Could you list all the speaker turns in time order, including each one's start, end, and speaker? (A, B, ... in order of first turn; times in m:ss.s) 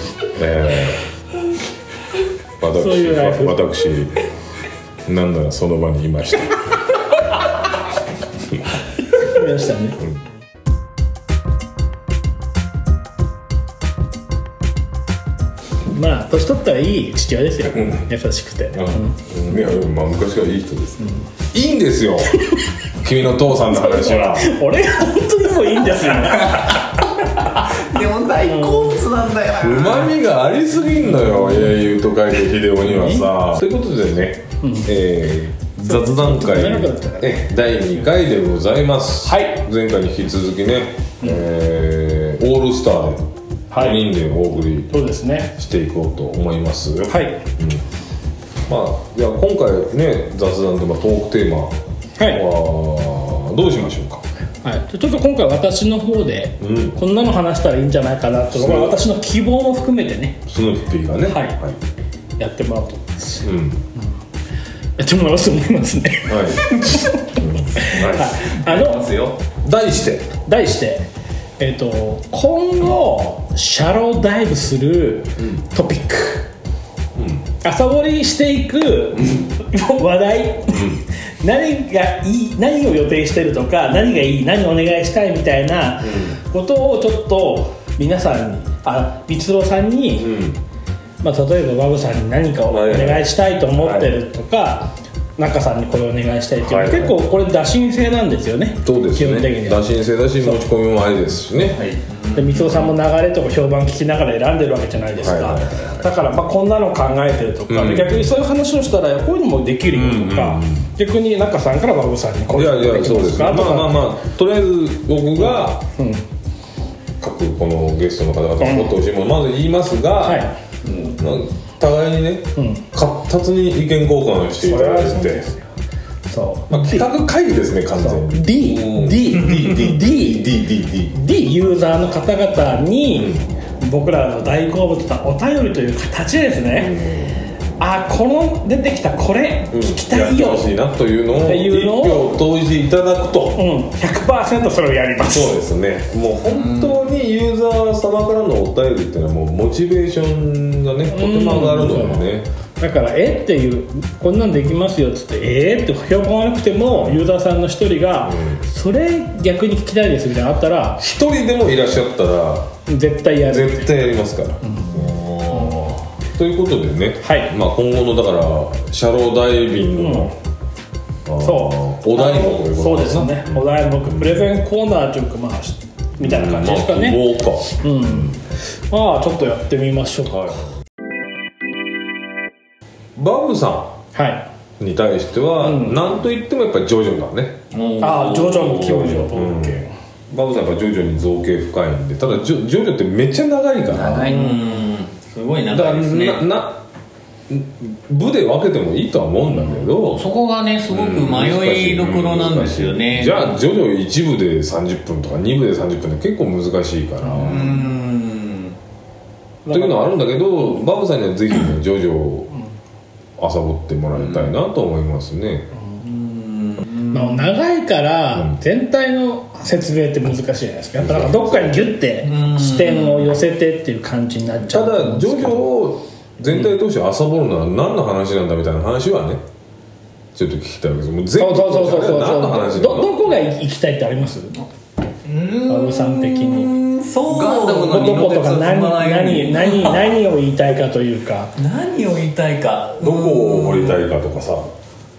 0:00.3-0:01.0 A
0:02.6-0:04.2 A
0:02.7-0:03.6 B
0:05.0-0:06.6 A
0:09.2-0:10.0 B
0:15.9-0:19.2 B
0:17.7-0:18.0 A
0:18.7-0:22.4 A
0:23.0-0:24.6 A
0:23.6-0:26.8 B
0:26.3-0:26.9 C
0:27.6-0:30.1 C
0:28.5-0:28.9 B
0:29.6-0:47.8 A
0:32.8-0:33.3 B
0:34.6-0:34.9 B
0:35.8-0:37.4 B
0:39.2-0:39.6 B
0:43.7-0:44.0 B
0:44.9-0:45.5 B
0:47.1-0:47.4 B
0:48.7-0:54.2 A
0:52.2-0:52.4 B
0:54.6-1:00.4 B
0:56.6-0:57.0 A
0:58.5-0:59.0 A
1:00.5-1:01.8 A
1:01.3-1:01.6 B
1:02.4-1:04.1 B
1:03.4-1:03.8 A
1:05.0-1:09.0 B
1:06.3-1:08.4 A
1:08.4-1:09.4 C
1:09.6-1:10.3 A
1:10.5-1:11.1 B
1:11.6-1:16.5 B
1:17.2-1:17.4 A
1:17.6-1:30.3 B
1:20.7-1:21.0 A
1:26.0-1:26.4 A
1:30.2-1:30.6 A
1:31.2-1:39.9 B
1:32.7-1:34.2 A
1:36.6-1:37.2 A
1:38.8-1:41.8 A
1:41.6-1:42.0 C
1:42.1-1:42.9 D
1:42.3-1:54.1 B
1:45.2-1:46.1 A
1:47.7-1:48.3 A
1:49.9-1:50.9 A
1:52.5-1:55.8 A
1:55.4-1:56.2 B
1:57.2-2:00.5 A
1:58.6-1:58.9 B
2:00.2-2:00.5 B
2:00.8-2:01.2 C
2:01.2-2:05.4 A
2:02.6-2:02.8 B
2:04.6-2:05.7 B
2:06.3-2:07.1 B
2:06.7-2:11.2 A
2:08.0-2:10.6 B
2:11.1-2:17.0 B
2:13.1-2:13.4 A
2:16.8-2:17.4 A
2:17.8-2:20.7 B
2:19.7-2:23.6 A
2:21.4-2:22.3 B
2:23.6-2:25.6 B
2:25.2-2:32.5 A
2:26.5-2:27.0 C
2:31.1-2:41.0 B
2:36.9-2:37.3 A
2:38.2-2:38.7 A
2:41.0-2:42.7 A
2:42.9-2:43.9 B
2:43.4-2:45.8 A
2:44.6-2:45.0 B
2:45.3-2:45.7 D
2:45.5-2:45.8 B
2:46.3-2:50.3 A
2:47.2-2:47.5 B
2:50.0-2:50.3 B
2:51.3-2:54.5 A
2:51.4-3:00.6 B
2:56.2-2:58.4 A
3:00.3-3:00.6 A
3:03.2-3:03.9 A
3:04.1-3:04.4 B
3:04.8-3:07.6 A
3:05.6-3:06.0 B
3:07.7-3:09.2 D
3:08.0-3:09.9 B
3:08.8-3:14.3 A
3:13.9-3:14.8 C
3:14.1-3:16.4 D
3:15.7-3:16.8 A
3:17.5-3:20.2 A
3:19.8-3:23.6 D
3:20.9-3:27.8 A
3:27.3-3:28.0 C
3:27.4-3:28.8 D
3:29.6-3:30.1 B
3:29.7-3:32.5 A
3:33.4-3:35.7 A
3:34.1-3:34.5 C
3:36.0-3:37.5 D
3:37.1-3:45.6 B
3:41.0-3:41.9 A
3:42.2-3:43.4 D
3:44.6-3:49.4 A
3:50.4-3:53.4 A
3:51.4-3:54.6 B
3:55.2-3:58.3 D
3:55.7-3:56.7 B
3:57.3-3:59.9 C
3:57.8-4:01.5 B
4:01.6-4:04.0 D
4:03.0-4:04.7 A